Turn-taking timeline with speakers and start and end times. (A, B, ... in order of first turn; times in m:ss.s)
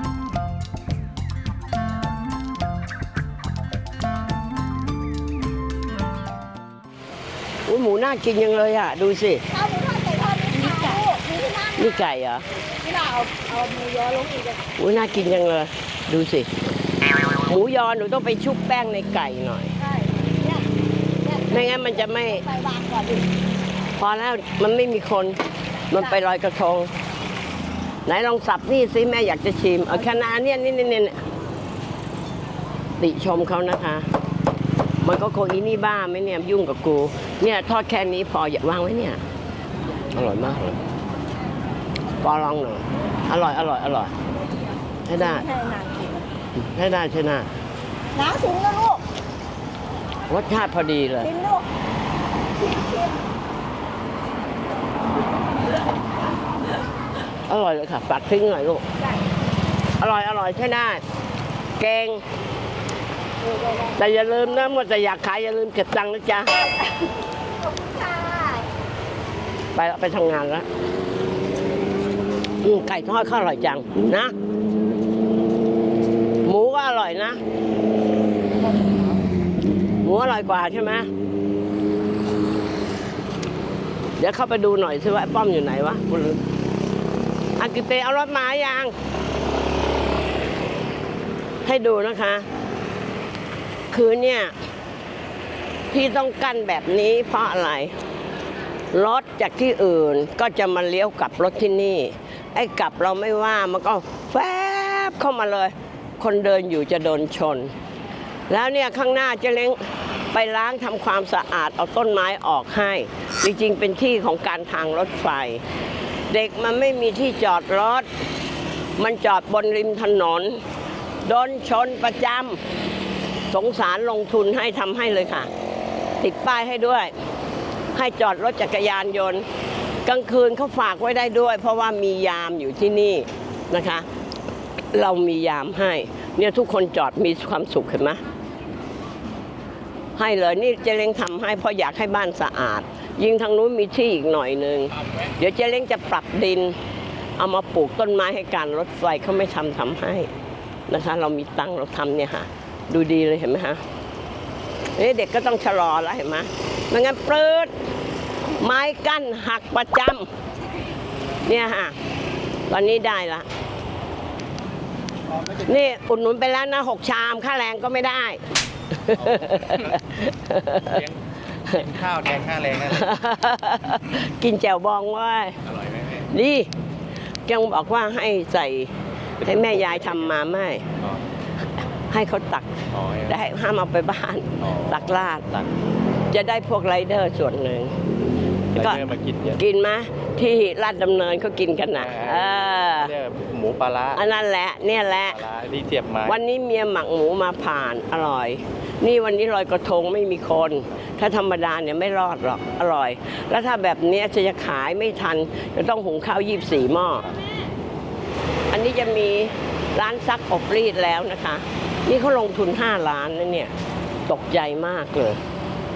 0:07.7-0:09.4 A
0:09.5-0:11.9 B
0:11.8-0:12.4 A
0:12.8-0:14.7 B
0:14.8-0:16.5 A
0:17.4-0:19.7 A
0:19.8-0:20.6 B
0:21.2-0:23.2 B
0:21.5-0:22.4 A
0:24.0-0:25.4 A
0:25.9-0:26.9 A
0:28.0-0:31.2 A
0:33.0-0:34.1 A
0:35.0-0:39.2 A
0:40.1-0:40.8 A
0:42.2-0:44.1 A
0:45.0-0:45.5 A
0:45.1-0:46.3 B
0:46.6-0:47.5 A
0:48.1-0:49.0 B
0:50.3-0:51.3 A
0:51.2-0:51.6 B
0:52.6-0:53.2 B
0:57.5-0:58.8 A
1:00.0-1:01.0 A
1:01.8-1:02.2 A
1:03.5-1:03.9 B
1:04.0-1:06.6 A
1:06.6-1:06.9 B
1:07.6-1:08.7 B
1:09.7-1:10.6 A
1:12.6-1:14.3 A
1:16.4-1:17.4 A
1:20.0-1:21.1 A
1:24.2-1:26.4 A
1:27.6-1:28.9 A
1:31.6-1:32.5 A
1:33.9-1:34.5 A
1:35.9-1:37.9 A
1:38.9-1:47.7 A
1:48.5-1:49.8 A
1:50.3-1:55.6 A
1:56.3-1:58.1 A
1:59.0-2:00.6 A
2:01.2-2:02.6 A
2:03.5-2:05.5 A
2:06.2-2:07.1 A
2:07.9-2:09.4 A
2:10.0-2:14.0 A
2:14.9-2:18.2 A
2:20.2-2:26.8 A
2:25.0-2:25.3 C
2:27.4-2:30.3 A
2:30.9-2:33.8 A
2:35.0-2:37.7 A
2:38.6-2:40.3 A
2:41.4-2:41.9 A
2:42.7-2:43.5 A
2:45.3-2:45.8 C
2:45.6-2:48.4 A
2:49.1-2:50.9 A
2:49.1-2:50.1 C
2:50.8-2:53.2 C
2:52.9-2:55.6 A
2:55.6-2:56.3 C
2:56.3-2:56.7 A
2:57.5-3:00.8 A
2:59.4-3:00.3 C
3:02.1-3:02.7 A
3:02.9-3:03.4 C
3:03.3-3:05.4 A
3:04.6-3:05.7 C
3:06.3-3:07.9 A
3:08.7-3:09.6 C
3:08.8-3:09.0 A
3:09.6-3:13.1 A
3:11.9-3:14.2 C
3:14.1-3:15.4 A
3:15.3-3:16.4 C
3:16.2-3:27.3 A
3:28.7-3:33.7 A
3:34.3-3:35.4 A